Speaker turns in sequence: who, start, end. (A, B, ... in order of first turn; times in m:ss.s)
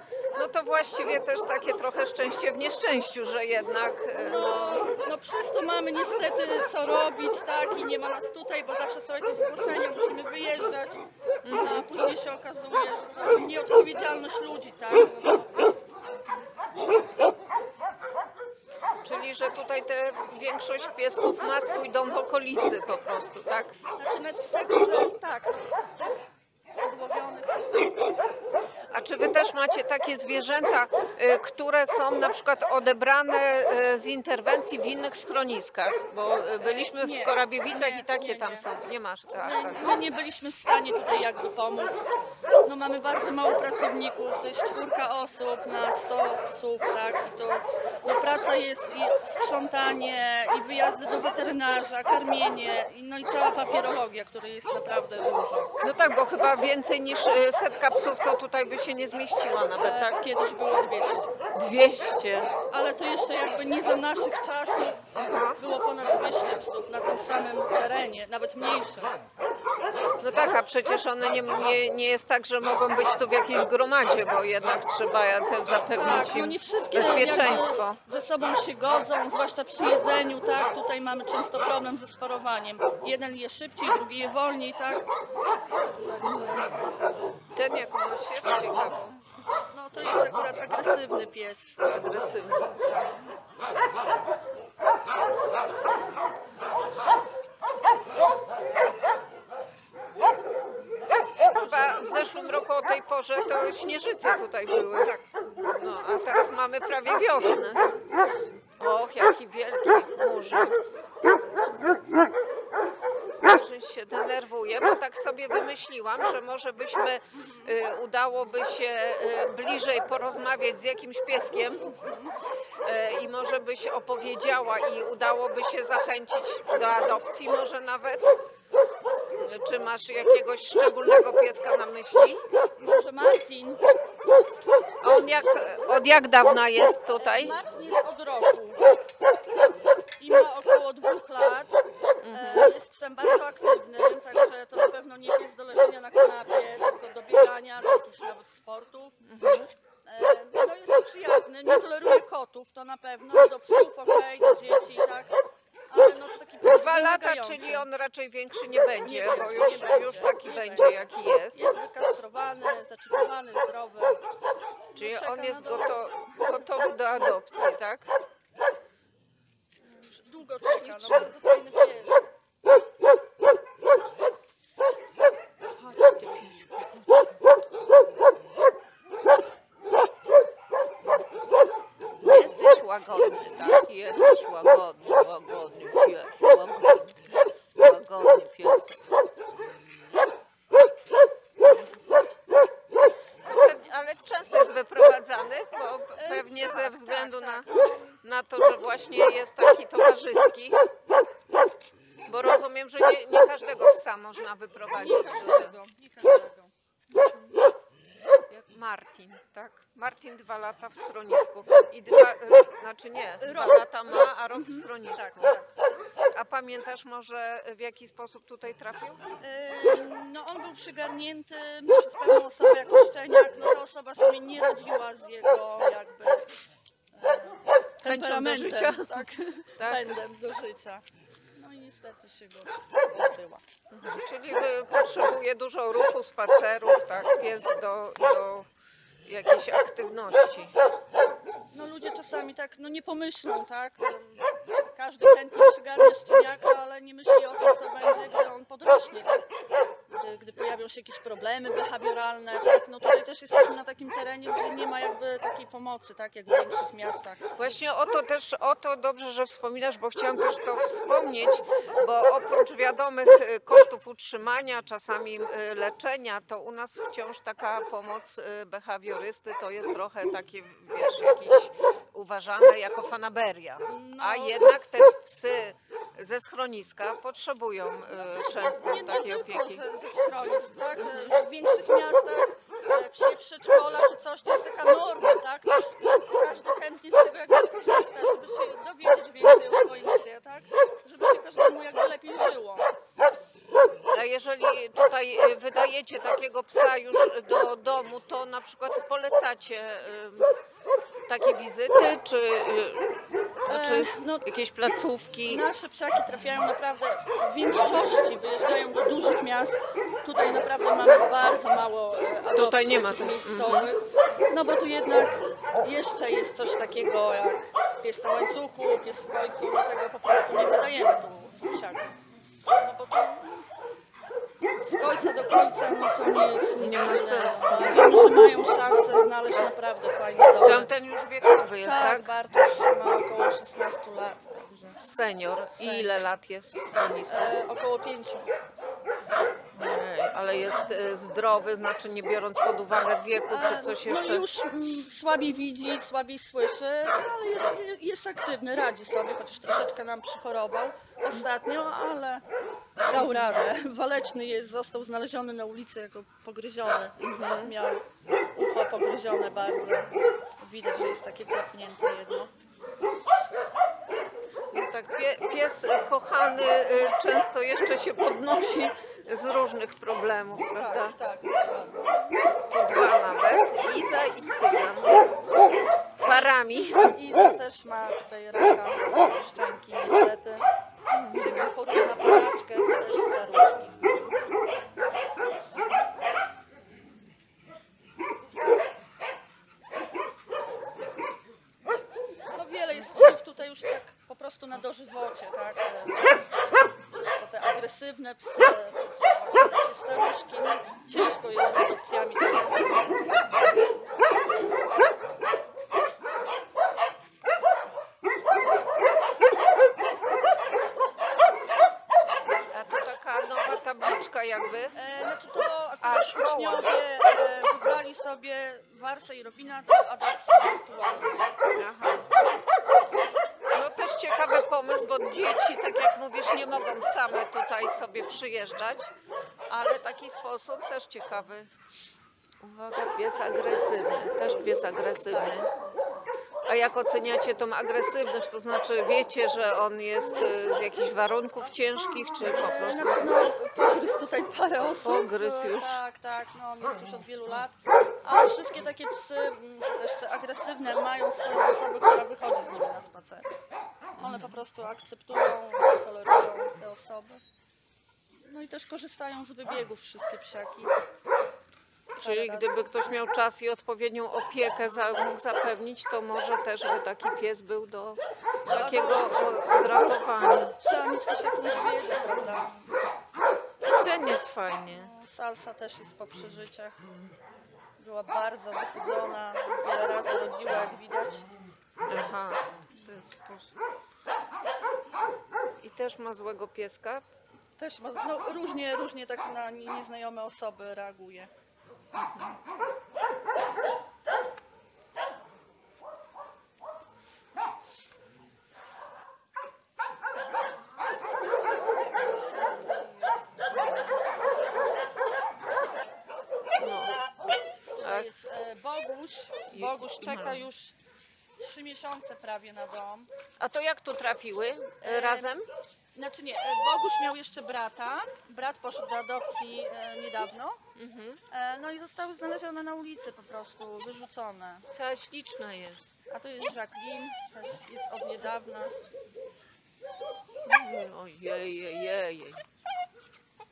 0:00.3-0:04.8 A
0:04.1-0:15.7 B
0:11.4-0:11.8 A
0:19.0-0:23.8 A
0:24.0-0:26.2 B
0:26.8-0:27.9 B
0:28.9-0:39.8 A
0:36.6-0:38.7 B
0:39.3-0:42.0 B
0:42.6-0:55.7 B
0:55.8-1:00.2 A
0:59.8-1:01.3 B
1:01.5-1:02.5 A
1:02.7-1:09.1 B
1:05.2-1:05.6 A
1:10.2-1:18.0 A
1:16.0-1:25.1 B
1:25.8-1:26.8 B
1:27.5-1:29.2 A
1:29.7-1:31.8 B
1:31.8-1:32.9 A
1:41.5-1:42.4 B
1:41.5-1:47.8 A
1:48.8-1:50.8 A
1:53.4-2:02.0 A
2:02.0-2:02.3 B
2:02.8-2:08.4 A
2:06.8-2:07.1 B
2:09.4-2:12.4 A
2:12.8-2:13.8 B
2:15.0-2:17.6 A
2:17.2-2:18.8 B
2:20.2-2:21.8 B
2:22.2-2:22.7 A
2:22.3-2:29.2 B
2:29.2-2:29.7 A
2:30.1-2:35.3 B
2:35.9-2:37.9 B
2:36.6-2:41.6 A
2:39.0-2:44.2 B
2:44.9-2:46.0 B
2:45.0-2:48.1 A
2:49.8-2:52.2 B
2:50.6-2:51.4 A
2:55.8-2:57.0 A
3:02.2-3:07.2 A
3:07.8-3:09.1 A
3:13.4-3:17.7 A
3:16.2-3:18.0 B
3:18.2-3:20.8 A
3:22.3-3:25.8 A
3:24.9-3:26.7 B
3:28.5-3:35.5 A
3:33.4-3:35.8 B
3:36.3-3:39.2 A
3:39.4-3:46.5 B
3:47.1-3:51.0 B
3:48.0-3:50.0 A
3:51.5-3:53.6 B
3:53.9-3:58.7 A
3:59.3-4:00.8 A
4:01.7-4:09.4 B
4:10.1-4:17.4 B
4:17.6-4:39.8 A
4:33.9-4:34.8 B
4:38.4-4:52.9 B
4:41.0-4:41.3 A
4:54.1-5:00.5 A
5:01.3-5:03.1 A
5:03.7-5:05.6 A
5:03.7-5:04.5 B
5:05.5-5:22.2 B
5:12.5-5:13.9 A
5:22.7-5:23.6 B
5:24.8-5:30.9 B
5:26.8-5:28.1 A
5:30.6-5:32.3 A
5:31.8-5:35.0 B
5:35.0-5:37.5 A
5:35.8-5:36.2 B
5:37.3-5:38.5 B
5:39.7-5:44.4 A
5:43.5-5:52.4 B
5:53.1-5:58.0 B
5:53.1-5:53.4 A
5:57.2-5:57.7 A
5:58.6-6:02.5 B
6:04.7-6:11.2 A
6:10.8-6:12.2 B
6:12.7-6:15.2 A
6:16.2-6:17.2 A
6:17.1-6:20.6 B
6:21.1-6:21.7 A
6:21.3-6:24.0 B
6:32.5-6:36.5 B
6:37.1-6:43.0 B
6:52.7-6:55.0 A
6:55.0-7:01.6 B
6:56.0-6:56.9 A
7:01.8-7:02.2 A
7:03.7-7:09.1 A
7:09.7-7:11.7 A
7:12.6-7:15.7 A
7:16.7-7:23.3 A
7:22.4-7:33.6 B
7:25.0-7:26.0 A
7:34.2-7:37.4 B
7:34.2-7:34.5 A
7:38.5-7:41.0 B
7:42.2-7:50.8 A
7:42.2-7:43.1 B
7:48.7-7:50.0 B
7:50.8-7:52.9 B
7:53.8-7:55.1 A
7:54.9-7:57.0 B
7:58.0-8:01.5 B
8:02.1-8:03.8 A
8:05.8-8:07.3 A
8:07.8-8:11.5 B
8:26.8-8:27.2 A
8:28.0-8:30.9 B
8:28.0-8:28.3 A
8:29.7-8:30.7 A
8:31.6-8:33.3 B
8:33.6-8:35.7 A
8:35.0-8:35.5 B
8:36.2-8:40.8 B
8:41.0-8:41.4 A
8:41.5-8:44.9 B
8:44.9-8:46.1 A
8:46.3-8:49.0 B
8:50.6-8:52.6 A